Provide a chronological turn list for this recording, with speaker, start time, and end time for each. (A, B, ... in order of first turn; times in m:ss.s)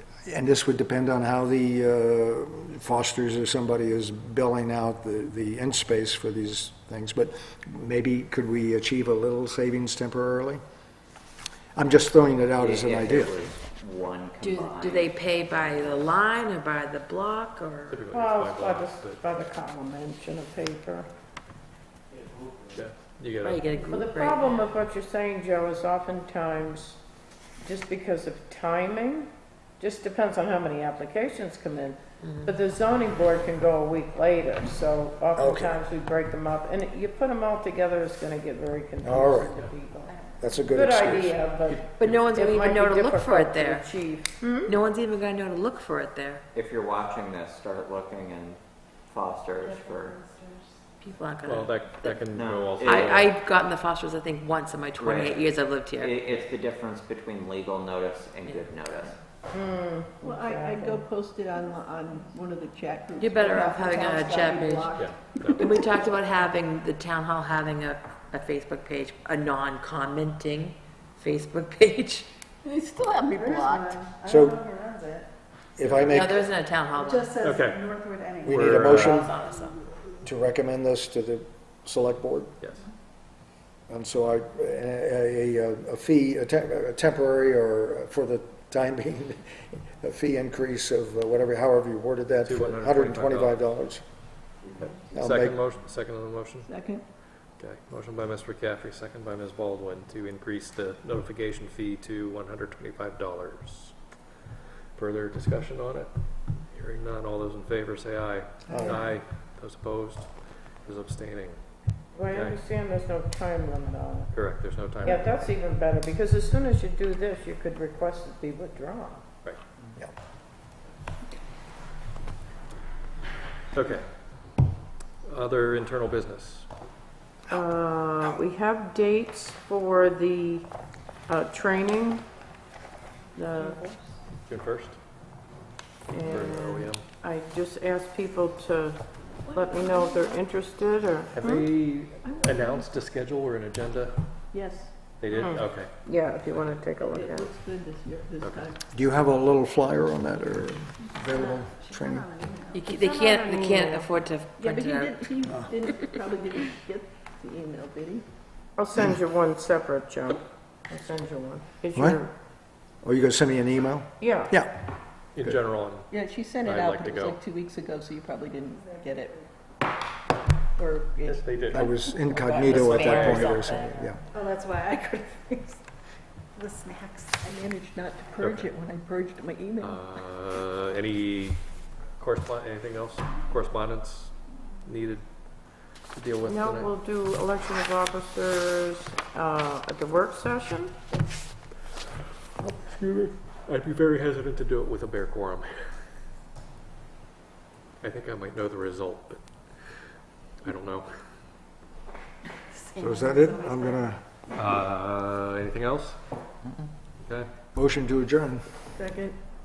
0:00.2-0:10.6 A
0:11.7-0:13.4 A
0:12.6-0:15.1 B
0:14.4-0:18.0 C
0:17.9-0:19.2 D
0:18.1-0:21.1 E
0:22.7-0:23.8 D
0:23.4-0:24.7 C
0:23.9-0:27.0 E
0:27.6-0:44.7 E
0:32.2-0:32.6 C
0:35.4-0:35.7 A
0:39.0-0:39.6 A
0:40.4-0:41.4 A
0:41.9-0:43.9 C
0:44.6-0:46.4 C
0:46.5-0:50.2 B
0:49.8-0:50.7 F
0:51.0-0:52.2 C
0:51.4-0:53.3 D
0:52.1-0:53.1 B
0:52.8-0:56.2 C
0:55.0-0:59.2 B
0:59.5-1:01.0 E
1:00.2-1:05.9 G
1:03.2-1:05.0 C
1:04.3-1:05.1 F
1:04.9-1:05.7 D
1:05.6-1:12.3 C
1:12.6-1:14.1 G
1:13.3-1:15.3 F
1:14.2-1:14.7 A
1:15.8-1:16.5 A
1:15.8-1:16.3 D
1:16.1-1:17.4 C
1:16.9-1:19.1 F
1:17.4-1:19.3 D
1:18.4-1:19.4 A
1:19.0-1:19.8 C
1:20.2-1:22.5 A
1:23.9-1:34.0 A
1:32.4-1:33.6 D
1:34.8-1:36.7 D
1:35.1-1:35.6 A
1:36.6-1:37.0 G
1:37.6-1:44.0 D
1:44.9-1:51.6 D
1:48.7-1:49.0 A
1:52.1-1:54.4 E
1:52.2-1:52.6 D
1:54.3-1:55.3 D
1:55.0-1:59.2 E
2:03.7-2:04.1 D
2:05.2-2:06.7 D
2:07.5-2:10.7 E
2:11.3-2:12.2 E
2:13.4-2:13.8 E
2:14.4-2:15.0 D
2:16.1-2:21.7 E
2:16.2-2:17.0 D
2:19.6-2:20.4 F
2:21.3-2:24.3 D
2:22.2-2:23.0 G
2:24.5-2:25.1 G
2:25.2-2:25.9 D
2:25.3-2:27.5 E
2:26.4-2:26.9 D
2:27.0-2:28.8 G
2:28.4-2:28.7 D
2:28.9-2:32.4 A
2:31.3-2:33.5 F
2:32.7-2:35.3 C
2:33.5-2:34.0 E
2:34.6-2:38.2 G
2:38.8-2:42.3 E
2:41.9-2:42.2 A
2:43.0-2:44.8 A
2:44.2-2:44.5 E
2:45.4-2:47.4 D
2:46.1-2:49.4 G
2:50.8-2:52.9 G
2:51.2-2:51.9 D
2:51.7-2:54.2 A
2:52.4-2:52.6 F
2:52.6-2:54.1 C
2:53.0-2:53.5 D
2:54.3-2:55.8 F
2:56.6-2:57.5 F
2:57.4-3:00.0 G
2:58.4-2:58.7 D
2:59.8-3:01.6 D
3:02.2-3:04.3 D
3:04.8-3:06.9 D
3:06.4-3:10.9 E
3:12.6-3:16.0 D
3:18.0-3:19.4 D
3:20.6-3:21.2 D
3:22.8-3:24.0 F
3:23.0-3:24.2 A
3:24.5-3:26.2 D
3:27.7-3:28.6 A
3:28.9-3:29.4 G